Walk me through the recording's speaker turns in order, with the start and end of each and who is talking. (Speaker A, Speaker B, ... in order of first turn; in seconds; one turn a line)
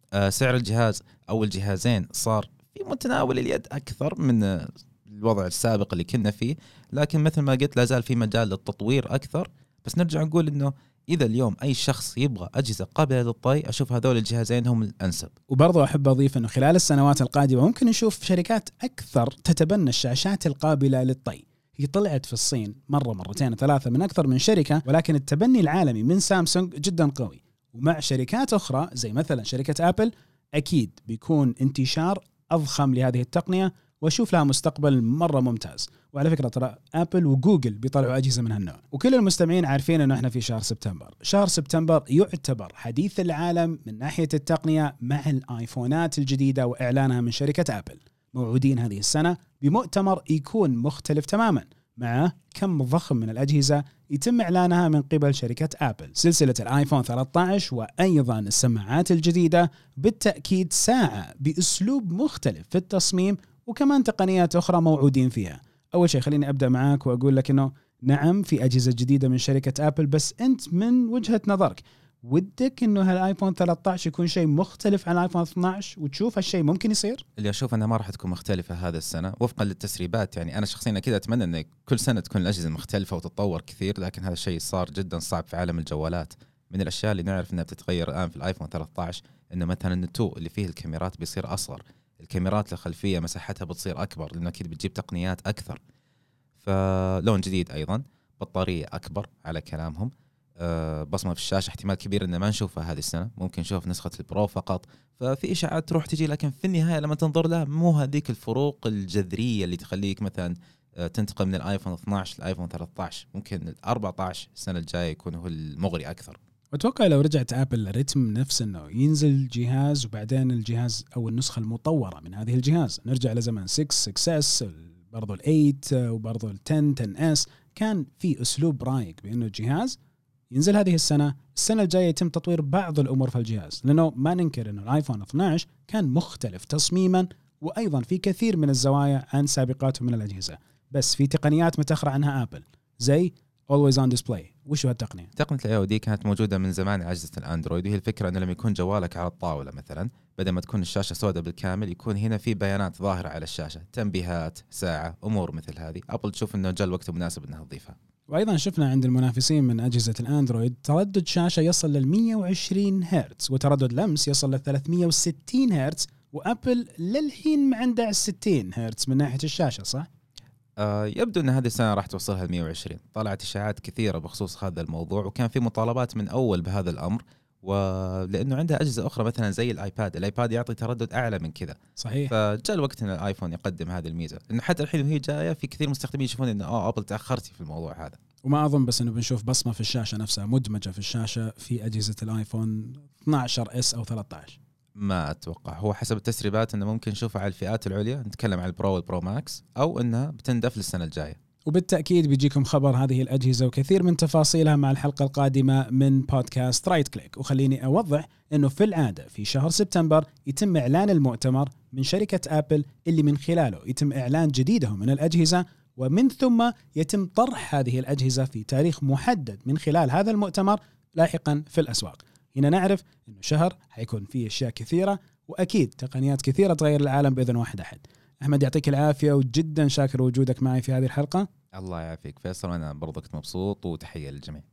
Speaker A: 0.2-15.3
Speaker B: 15.5-77.2
Speaker A: 77.4-95.8
Speaker A: 96.6-100.1
Speaker A: 100.6-116.4
Speaker B: 116.7-130.0
Speaker B: 130.5-145.3
Speaker A: 145.4-157.9
Speaker B: 158.3-170.1
Speaker A: 170.8-181.8
Speaker B: 182.0-182.3
Speaker A: 182.3-188.2
Speaker B: 188.4-194.6
Speaker A: 195.0-201.4
Speaker B: 201.7-231.5
Speaker A: 231.8-234.6